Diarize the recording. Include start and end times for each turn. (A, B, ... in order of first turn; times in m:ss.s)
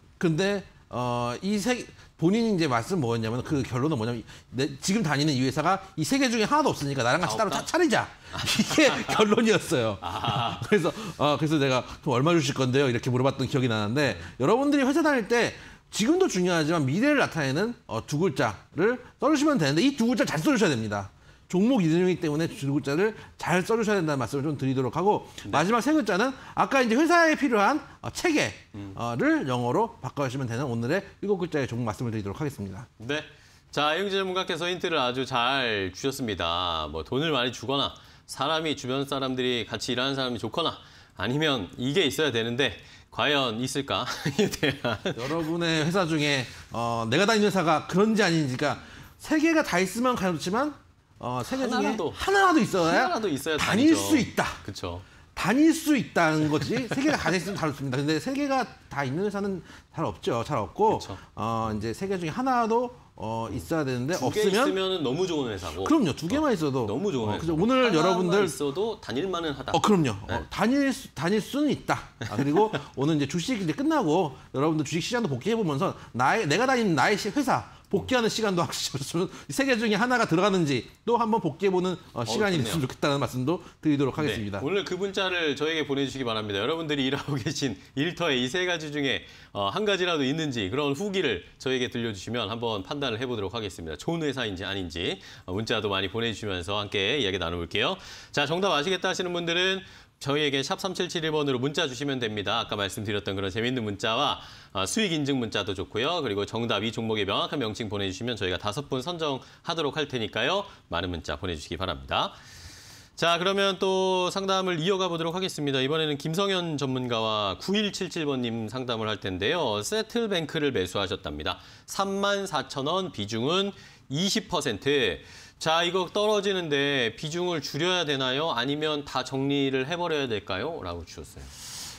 0:00.2-0:32.9 A
0:07.2-0:07.7 B
0:08.3-0:09.2 B
0:10.0-0:10.7 B
0:33.0-0:45.4 B
0:45.1-0:54.6 A
0:51.5-0:52.2 B
0:52.8-0:55.0 B
0:55.4-1:04.8 A
1:00.9-1:01.2 B
1:04.1-1:10.4 B
1:05.7-1:08.6 A
1:09.7-1:24.7 A
1:22.3-1:22.8 B
1:24.2-1:52.3 B
1:53.2-2:11.5 B